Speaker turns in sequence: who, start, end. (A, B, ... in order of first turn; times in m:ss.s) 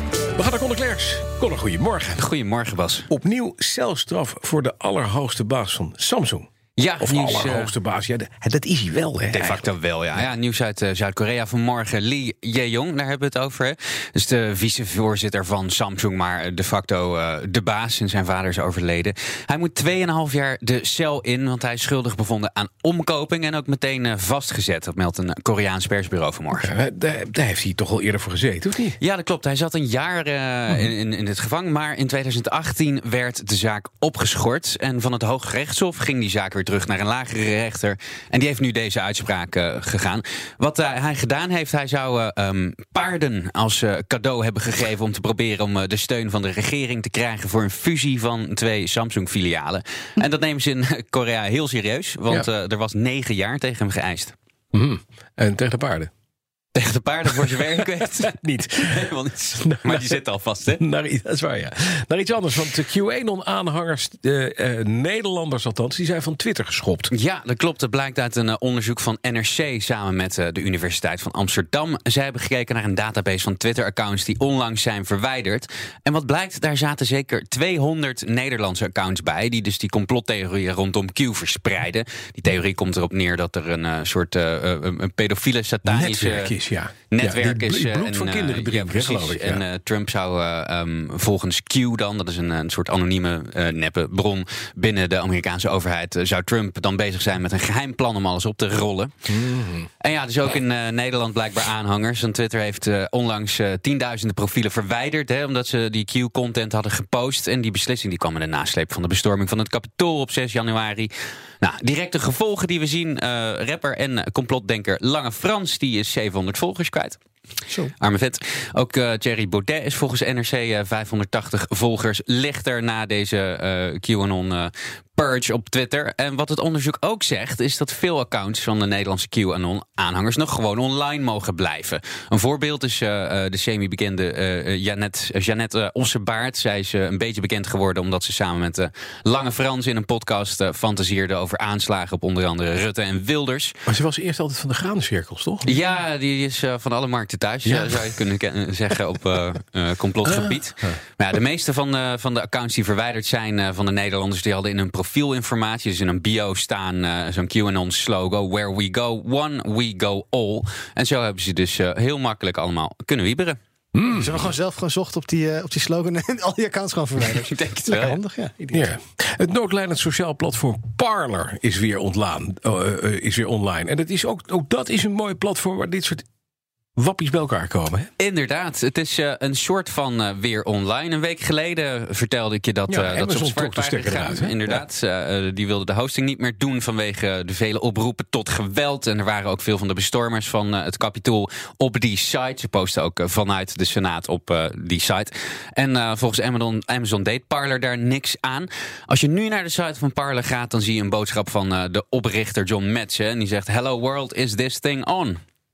0:00.3-0:02.2 A
0:02.1-0:03.1 B
0:03.1-0:06.5 A
0:06.8-0:07.7 B
0:07.0-0:09.7 A
0:09.3-0:26.7 B
0:26.5-0:29.0 A
0:29.0-0:54.4 B
0:54.7-0:56.1 A
0:56.7-1:00.8 B
0:57.4-0:59.0 A
0:59.6-1:00.2 A
1:00.8-1:07.1 A
1:07.1-1:26.5 B
1:25.8-1:29.6 A
1:27.1-1:39.1 B
1:39.3-1:39.9 A
1:40.0-1:57.2 B
1:58.0-2:23.8 B
2:23.8-2:25.7 A
2:25.6-2:43.6 B
2:27.6-2:28.2 A
2:30.2-2:31.0 A
2:43.9-2:44.4 A
2:44.1-2:48.8 C
2:47.3-2:48.2 B
2:48.7-2:56.2 A
2:57.0-2:58.1 A
2:58.2-3:25.4 B
3:02.9-3:04.8 A